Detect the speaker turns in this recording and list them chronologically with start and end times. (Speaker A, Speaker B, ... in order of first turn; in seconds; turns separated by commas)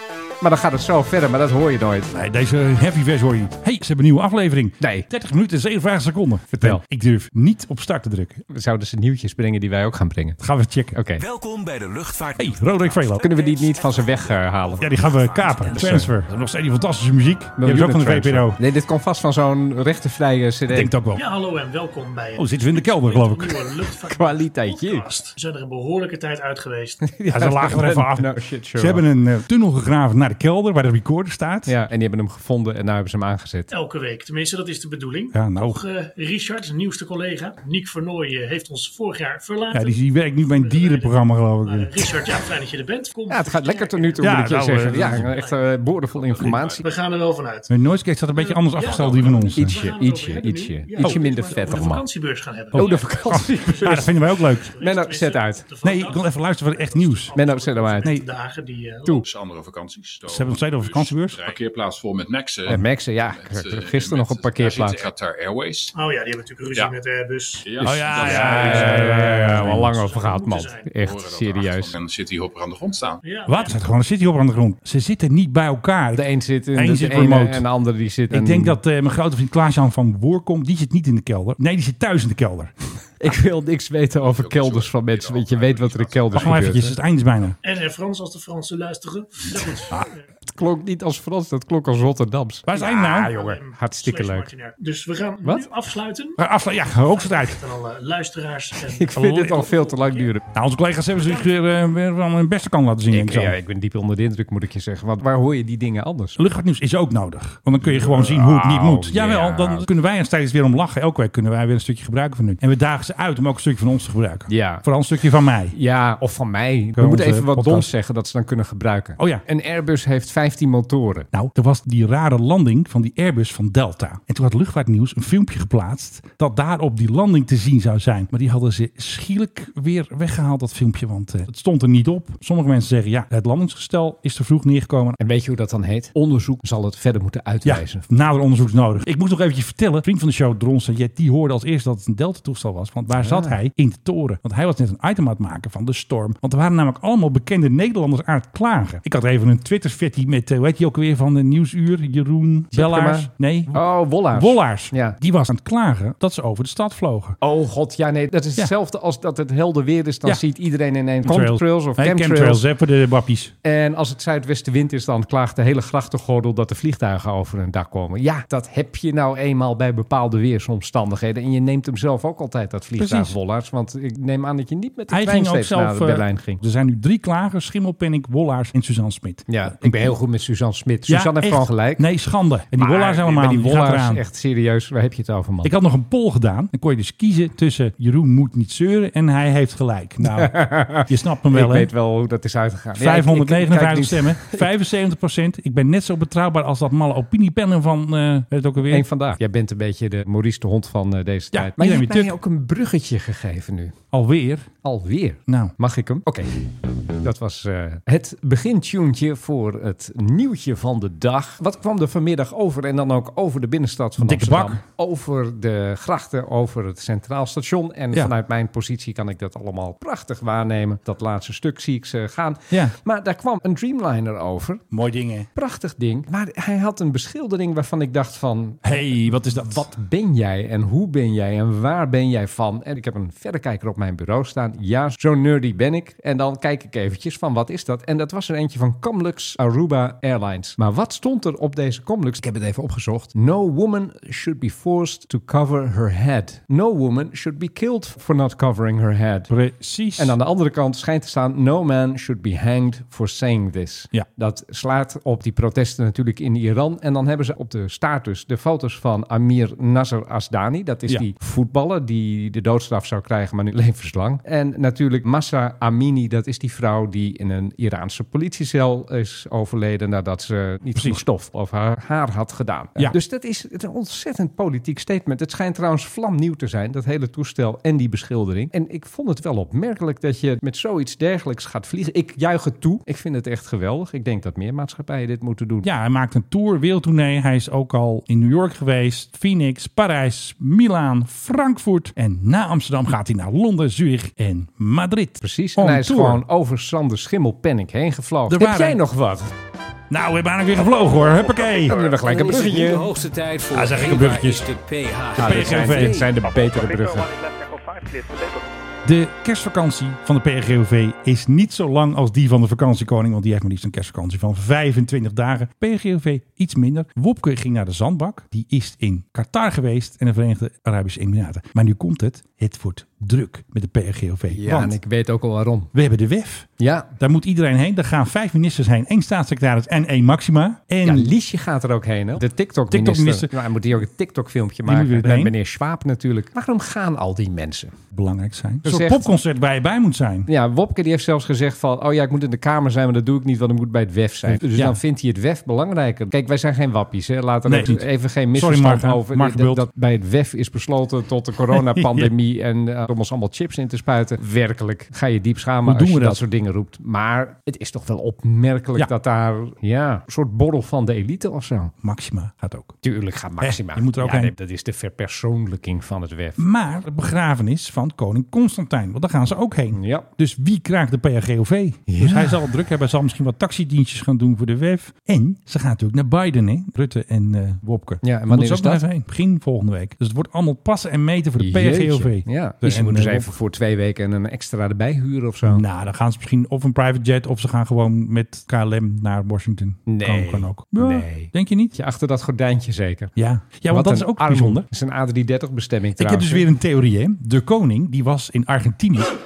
Speaker A: 0.4-2.1, Speaker B: 2.1-8.4, Speaker A: 4.8-5.1, Speaker A: 6.5-6.8, Speaker A: 8.5-10.4, Speaker B: 10.4-11.0, Speaker A: 10.9-11.2, Speaker C: 11.8-12.4, Speaker B: 12.4-13.3, Speaker A: 13.2-15.0, Speaker B: 14.8-18.6, Speaker A: 15.6-16.1, Speaker A: 17.6-20.9, Speaker B: 20.7-21.2, Speaker D: 21.1-27.0, Speaker B: 22.4-23.7, Speaker A: 24.1-25.1, Speaker A: 27.0-29.0, Speaker B: 27.3-31.7, Speaker A: 31.7-33.7, Speaker D: 33.7-44.4, Speaker B: 35.3-35.8, Speaker B: 39.7-42.1, Speaker A: 43.3-46.9, Speaker B: 44.2-45.3, Speaker D: 44.9-45.7, Speaker E: 46.1-46.8, Speaker D: 46.8-47.7, Speaker B: 47.7-49.8, Speaker D: 48.3-59.2, Speaker A: 49.6-52.0, Speaker A: 52.7-54.1, Speaker B: 52.7-54.7, Speaker E: 52.9-53.2, Speaker A: 54.8-55.7, Speaker B: 55.8-57.3, Speaker A: 57.3-58.1, Speaker E: 59.2-65.9, Speaker B: 60.3-61.5, Speaker A: 62.7-65.1, Speaker D: 65.9-67.7, Speaker E: 67.7-69.2, Speaker B: 67.8-70.0, Speaker A: 68.1-72.0, Speaker D: 68.3-70.9, Speaker E: 71.0-73.2, Speaker D: 73.2-73.8, Speaker B: 73.5-77.7, Speaker A: 76.2-78.8, Speaker B: 78.3-82.7, Speaker A: 83.2-86.9, Speaker E: 84.2-86.6, Speaker B: 86.3-87.6, Speaker D: 87.6-90.2, Speaker A: 90.5-94.5, Speaker B: 92.7-93.3, Speaker D: 93.1-96.4, Speaker B: 96.4-97.6, Speaker D: 97.0-100.3, Speaker A: 98.9-100.5, Speaker B: 99.2-99.7, Speaker B: 100.5-103.6, Speaker A: 103.1-106.4, Speaker B: 106.4-115.8, Speaker A: 107.8-109.9, Speaker A: 114.5-114.8, Speaker A: 115.7-121.3, Speaker B: 117.0-117.9, Speaker B: 119.2-119.4, Speaker B: 121.3-135.2, Speaker A: 135.2-138.1, Speaker B: 137.7-157.4, Speaker A: 143.2-143.6, Speaker A: 152.7-155.2, Speaker A: 157.4-162.6, Speaker B: 161.2-163.5, Speaker A: 163.6-176.6, Speaker B: 173.0-173.3, Speaker B: 175.1-180.2, Speaker A: 179.5-182.1, Speaker B: 181.1-184.2, Speaker A: 182.7-185.7, Speaker B: 185.6-191.9, Speaker A: 190.3-194.7, Speaker B: 193.0-199.1, Speaker A: 198.8-204.0, Speaker B: 201.5-202.4, Speaker B: 204.1-204.7, Speaker A: 204.8-206.7, Speaker B: 205.5-205.7, Speaker A: 207.2-224.8, Speaker B: 214.2-214.8, Speaker B: 222.7-222.9, Speaker B: 224.9-225.5, Speaker A: 225.6-249.5, Speaker B: 228.8-229.9, Speaker B: 249.5-250.4, Speaker A: 250.2-285.9, Speaker B: 270.9-271.2, Speaker B: 285.8-296.4, Speaker A: 295.4-299.5, Speaker B: 298.5-299.0, Speaker B: 300.1-302.0, Speaker A: 301.9-303.1, Speaker C: 302.1-306.1, Speaker B: 303.7-304.7, Speaker A: 305.4-307.3, Speaker B: 305.4-306.3, Speaker C: 308.1-308.4, Speaker B: 309.1-325.0, Speaker A: 324.5-325.9, Speaker B: 325.9-326.7, Speaker A: 326.8-327.1, Speaker B: 327.2-331.3, Speaker A: 331.0-337.9, Speaker B: 332.9-333.6, Speaker B: 334.9-335.6, Speaker B: 338.1-340.5, Speaker A: 338.9-339.3, Speaker A: 340.5-361.9, Speaker B: 344.5-345.0, Speaker B: 347.7-349.8, Speaker B: 351.7-352.3, Speaker B: 355.9-356.4, Speaker B: 362.0-363.0, Speaker A: 363.0-366.6, Speaker B: 363.6-364.5, Speaker B: 366.6-383.5, Speaker A: 369.9-370.3, Speaker A: 372.1-372.6, Speaker A: 378.2-379.0, Speaker A: 381.6-385.8, Speaker B: 385.6-391.9, Speaker A: 390.1-393.3, Speaker B: 393.4-394.9, Speaker A: 393.9-396.7, Speaker B: 396.2-399.3